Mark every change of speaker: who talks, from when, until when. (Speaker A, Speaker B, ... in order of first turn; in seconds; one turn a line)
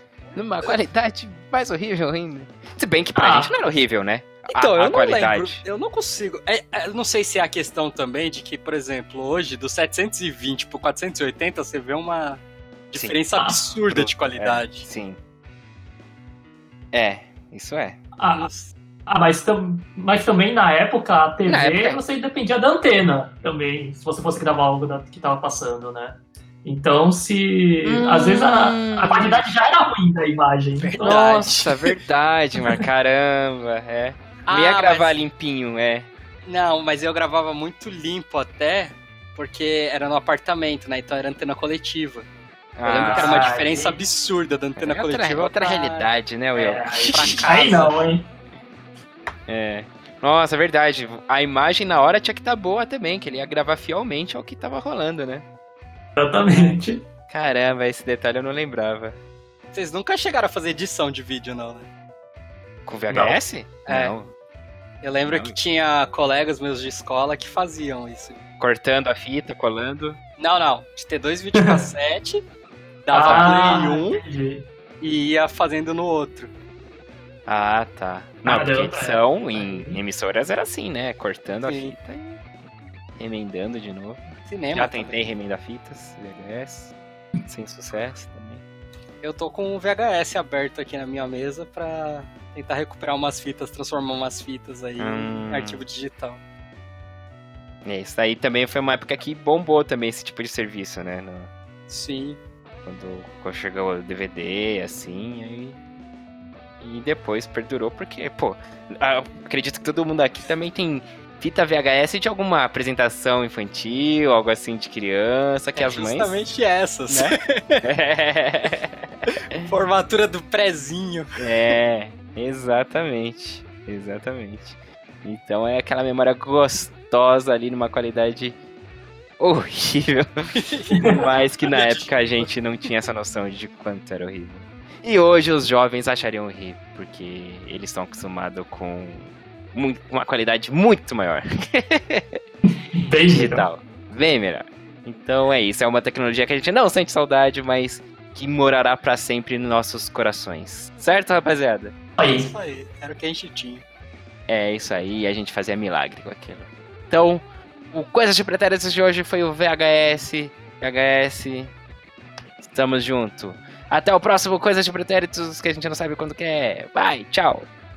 Speaker A: 0.3-5.6
Speaker B: 3.1-3.5
Speaker C: 4.5-14.9
Speaker B: 13.4-13.6
Speaker A: 13.9-15.2
Speaker A: 16.9-18.0
Speaker B: 18.2-18.5
Speaker C: 18.3-18.7
Speaker B: 19.1-31.4
Speaker A: 21.5-22.0
Speaker A: 27.9-29.4
Speaker C: 30.8-31.9
Speaker A: 31.0-36.1
Speaker C: 34.5-35.2
Speaker C: 36.5-42.3
Speaker A: 42.8-43.4
Speaker C: 42.8-46.1
Speaker B: 42.9-44.0
Speaker A: 44.8-47.9
Speaker B: 46.5-48.2
Speaker C: 47.0-47.9
Speaker A: 49.5-55.5
Speaker B: 56.2-57.0
Speaker C: 56.5-56.8
Speaker A: 57.3-59.2
Speaker C: 59.7-61.9
Speaker A: 62.9-64.3
Speaker B: 63.1-63.4
Speaker C: 63.9-64.2
Speaker C: 65.0-68.4
Speaker A: 65.2-65.6
Speaker A: 68.6-70.2
Speaker C: 70.4-72.4
Speaker B: 71.6-71.9
Speaker C: 73.1-74.2
Speaker B: 73.1-74.7
Speaker A: 73.2-73.8
Speaker C: 75.0-76.5
Speaker A: 77.5-82.4
Speaker B: 78.5-80.0
Speaker C: 81.7-81.9
Speaker A: 83.2-86.9
Speaker C: 84.5-85.2
Speaker A: 87.5-88.6
Speaker C: 89.2-96.4
Speaker A: 95.0-95.9
Speaker A: 97.8-101.5
Speaker C: 101.9-102.4
Speaker A: 102.8-105.8
Speaker A: 106.8-116.4
Speaker C: 115.8-117.8
Speaker A: 117.1-119.6
Speaker C: 119.6-121.8
Speaker A: 121.4-128.6
Speaker A: 129.4-130.3
Speaker C: 130.6-132.5
Speaker A: 131.0-142.4
Speaker B: 142.9-143.7
Speaker A: 143.2-151.9
Speaker B: 152.2-152.5
Speaker C: 152.2-153.8
Speaker A: 154.5-161.7
Speaker A: 162.6-167.7